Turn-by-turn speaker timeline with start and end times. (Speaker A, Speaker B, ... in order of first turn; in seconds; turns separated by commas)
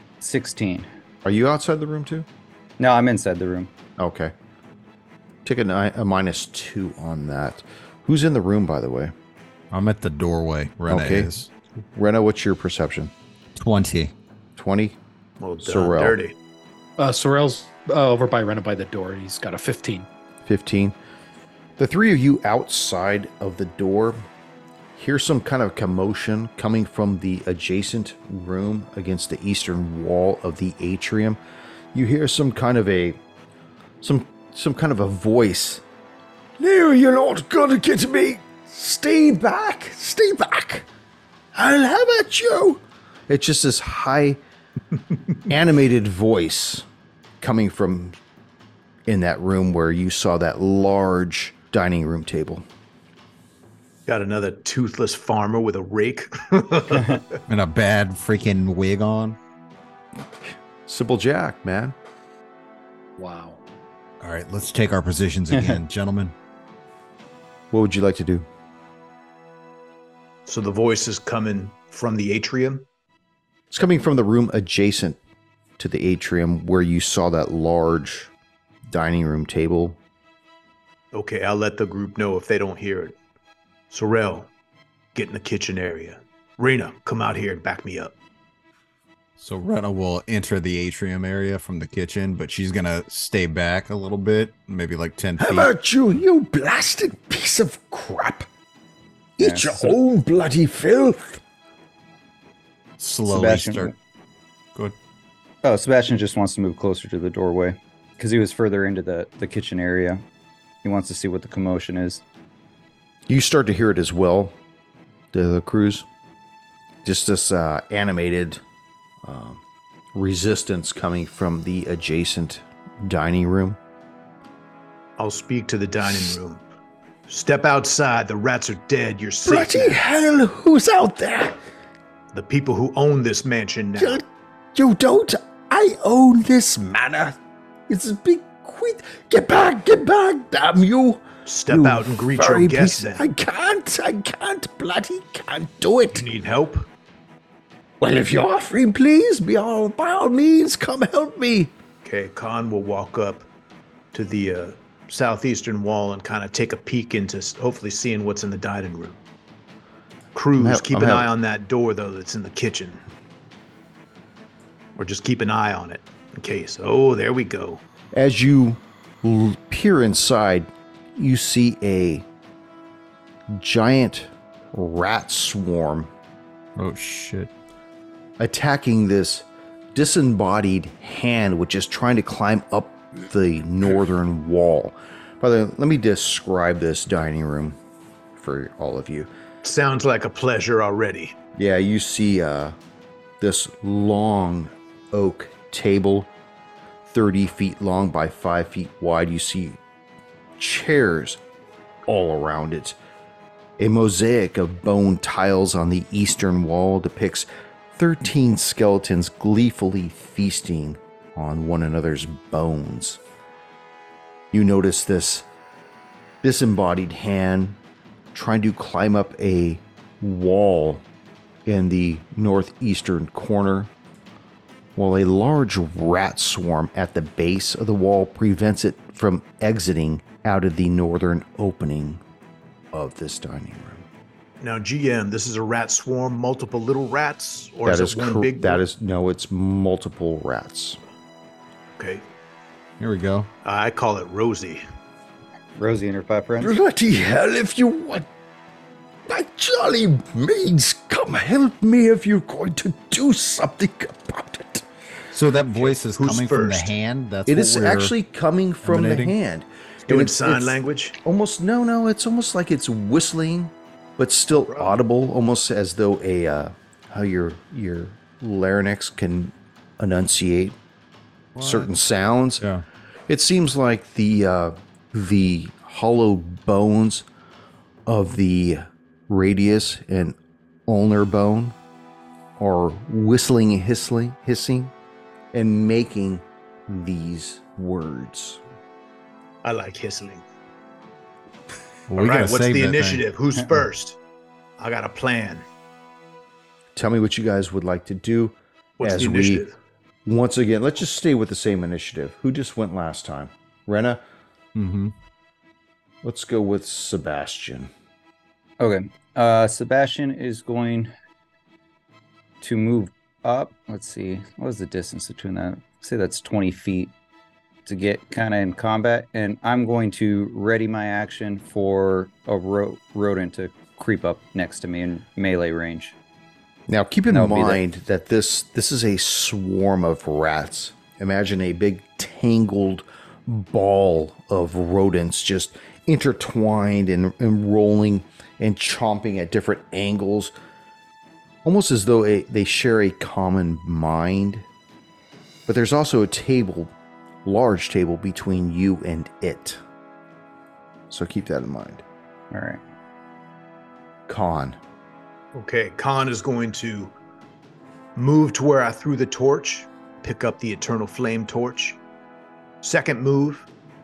Speaker A: 0.2-0.9, Speaker B: 1.2-2.3, Speaker A: 2.8-3.7, Speaker B: 4.0-4.3, Speaker B: 5.4-9.1, Speaker C: 9.7-11.5, Speaker B: 10.9-11.3, Speaker B: 11.9-13.1, Speaker C: 13.6-14.1, Speaker B: 14.6-15.0, Speaker D: 15.4-16.3, Speaker B: 15.6-16.2, Speaker E: 17.0-20.1, Speaker B: 20.4-20.9, Speaker B: 21.8-24.2, Speaker B: 24.9-31.4, Speaker B: 31.9-33.2, Speaker B: 34.0-35.8, Speaker B: 36.6-40.9, Speaker B: 41.5-44.4, Speaker B: 45.5-46.8, Speaker B: 47.4-48.2, Speaker B: 49.1-52.6, Speaker D: 54.1-57.4, Speaker C: 57.5-59.4, Speaker B: 60.9-61.9, Speaker E: 63.2-63.6, Speaker C: 64.2-66.3, Speaker B: 67.7-68.5, Speaker D: 70.5-72.8, Speaker B: 73.7-75.2, Speaker B: 75.8-78.3, Speaker B: 78.9-80.0, Speaker D: 81.1-83.2, Speaker D: 83.9-84.5, Speaker D: 85.1-88.1, Speaker C: 89.4-95.7, Speaker B: 95.4-98.5, Speaker B: 99.4-101.4, Speaker A: 99.4-100.0, Speaker C: 103.0-103.9, Speaker A: 103.3-103.9, Speaker A: 105.6-110.2, Speaker A: 110.8-112.2, Speaker B: 113.3-114.5, Speaker B: 115.3-116.0, Speaker B: 117.0-118.6, Speaker B: 119.2-119.6, Speaker B: 120.1-123.8, Speaker D: 125.2-126.6, Speaker D: 127.3-130.0, Speaker B: 129.4-131.6, Speaker D: 132.3-134.2, Speaker B: 133.9-134.2, Speaker B: 134.7-146.3, Speaker D: 141.4-143.3, Speaker D: 146.1-146.8, Speaker B: 148.0-151.7, Speaker D: 152.0-153.5, Speaker D: 154.1-159.2, Speaker D: 160.3-163.0, Speaker B: 160.6-161.3, Speaker D: 164.9-167.8, Speaker B: 168.1-172.2, Speaker B: 173.5-176.1, Speaker C: 176.8-177.5, Speaker B: 178.4-187.8, Speaker B: 188.3-189.3, Speaker D: 189.6-191.3, Speaker B: 191.5-192.7, Speaker B: 193.4-196.3, Speaker B: 197.1-199.8, Speaker B: 200.6-201.4, Speaker B: 202.0-202.9, Speaker B: 203.8-213.2, Speaker B: 214.5-215.4, Speaker B: 216.4-217.8, Speaker B: 218.3-221.0, Speaker B: 221.7-223.9, Speaker B: 224.9-232.2, Speaker B: 232.9-234.0, Speaker D: 234.6-238.8, Speaker B: 237.8-241.0, Speaker D: 242.0-242.2, Speaker C: 243.0-243.5, Speaker D: 243.6-244.8, Speaker A: 245.8-246.7, Speaker B: 246.6-248.3, Speaker B: 249.3-254.8, Speaker C: 255.3-258.1, Speaker D: 255.7-256.9, Speaker B: 257.5-270.8, Speaker C: 258.8-259.4, Speaker D: 260.1-261.1, Speaker D: 264.5-265.0, Speaker C: 271.6-271.9, Speaker B: 271.6-272.6, Speaker B: 273.3-277.2, Speaker B: 278.1-280.4, Speaker B: 280.9-281.7, Speaker B: 282.6-284.9, Speaker B: 285.5-288.6, Speaker D: 289.6-290.4, Speaker C: 292.1-293.2, Speaker D: 292.1-294.2, Speaker D: 294.8-295.6, Speaker B: 296.9-299.6, Speaker D: 299.0-299.8, Speaker B: 300.2-304.2, Speaker C: 304.7-305.1, Speaker B: 306.2-307.9, Speaker A: 308.8-311.1, Speaker A: 312.6-317.1, Speaker A: 317.9-326.1, Speaker B: 326.9-340.5, Speaker A: 327.3-327.8, Speaker B: 341.6-344.6, Speaker B: 345.7-346.9, Speaker B: 347.4-349.8, Speaker B: 351.1-352.0, Speaker A: 352.5-352.8, Speaker B: 354.3-354.8, Speaker D: 355.5-357.1, Speaker D: 358.1-362.0, Speaker D: 362.8-363.7